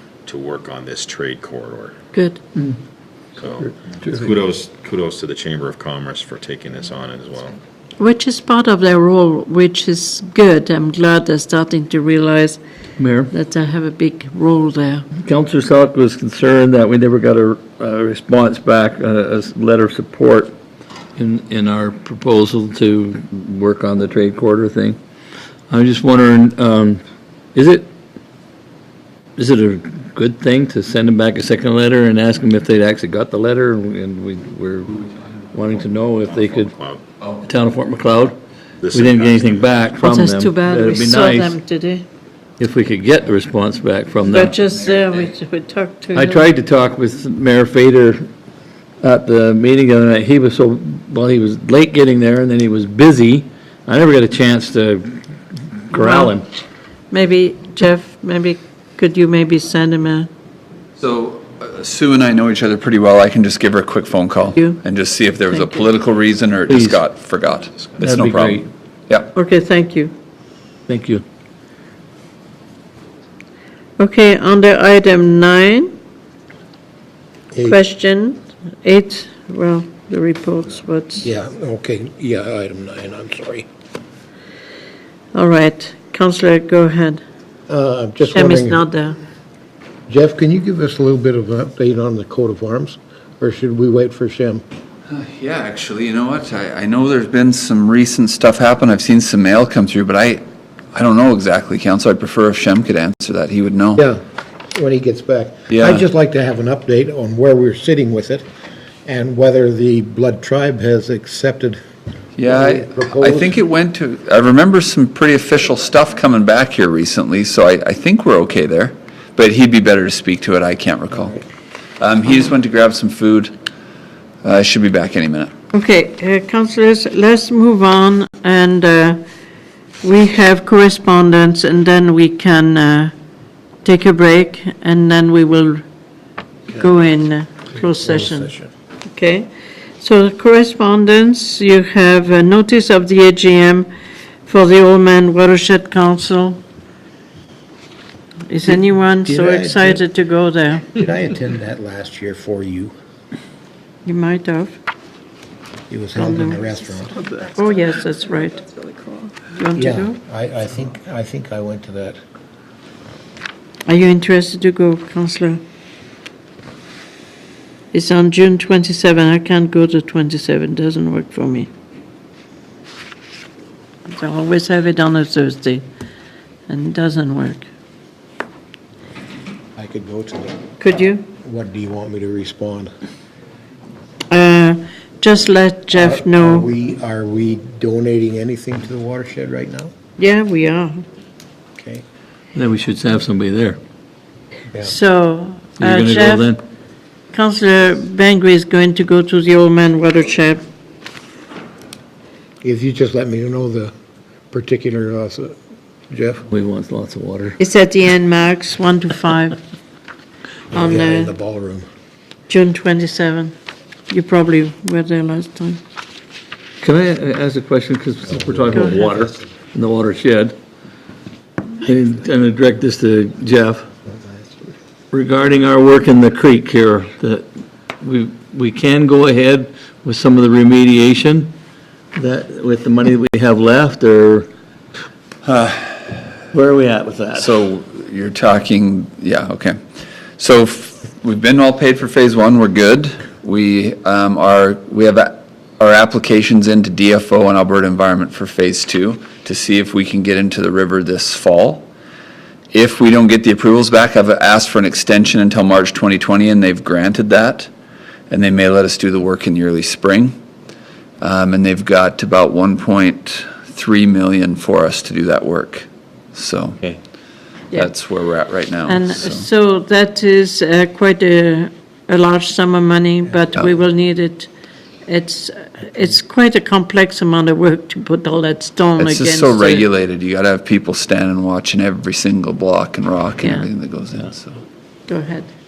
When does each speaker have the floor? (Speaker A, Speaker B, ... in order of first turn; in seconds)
Speaker A: 0.3-2.0, 3.4-7.6, 36.3-37.0, 38.8-39.7
Speaker B: 2.2-2.4, 8.0-12.6, 13.3-15.1, 40.1-42.1, 44.3-46.4, 55.9-56.3, 57.1-60.3, 64.6-64.8, 65.5-65.8, 69.5-70.1, 74.0-75.9, 77.7-81.3, 85.4-87.2, 88.3-89.2, 125.7-129.2, 130.0-133.1, 133.8-135.8, 136.8-138.5, 139.1-143.9, 144.5-146.6, 148.5-150.9, 154.1-154.8, 157.5-158.6, 159.5-160.2, 163.9-165.6, 167.9-171.7, 174.1-175.9, 176.7-177.7, 180.8-181.3, 184.3-186.7, 190.2-191.0, 194.9-196.5, 197.5-200.6, 207.6-209.6, 210.8-211.3, 212.5-213.5, 214.1-215.8, 218.8-219.1, 268.8-274.5, 275.1-279.9, 285.1-285.5
Speaker C: 3.6-4.3, 13.0-13.3, 15.2-20.5, 21.2-25.0, 25.7-27.0, 27.6-27.9, 29.4-36.7, 37.4-38.4, 38.9-41.5, 42.6-44.6, 46.1-48.2, 49.0-55.2, 55.9-56.5, 66.7-67.0, 68.0-68.7, 70.9-71.2, 192.6-193.8, 195.8-196.6, 206.5-207.6, 216.8-220.6, 221.8-223.9, 225.1-227.5, 228.0-231.5, 232.1-234.5, 236.5-237.5
Speaker D: 44.6-45.1, 61.0-69.3, 95.1-100.4, 100.9-104.0, 105.7-106.0, 112.4-121.4, 122.0-123.5, 124.4-125.5, 235.4-236.2, 237.3-239.8, 240.4-251.9, 252.7-257.7, 258.3-260.4, 261.2-266.8, 267.7-269.4, 279.0-284.6
Speaker E: 77.5-77.8, 81.2-83.7, 87.7-88.9, 90.1-94.6, 104.7-108.5, 109.0-111.8, 112.4-113.6, 137.8-138.7, 149.2-150.0, 150.9-152.9, 155.9-157.3, 159.8-162.2, 179.8-180.7, 181.3-182.9, 185.9-189.9, 191.8-192.0, 202.6-203.9, 204.5-205.6, 206.1-206.4, 210.7-211.8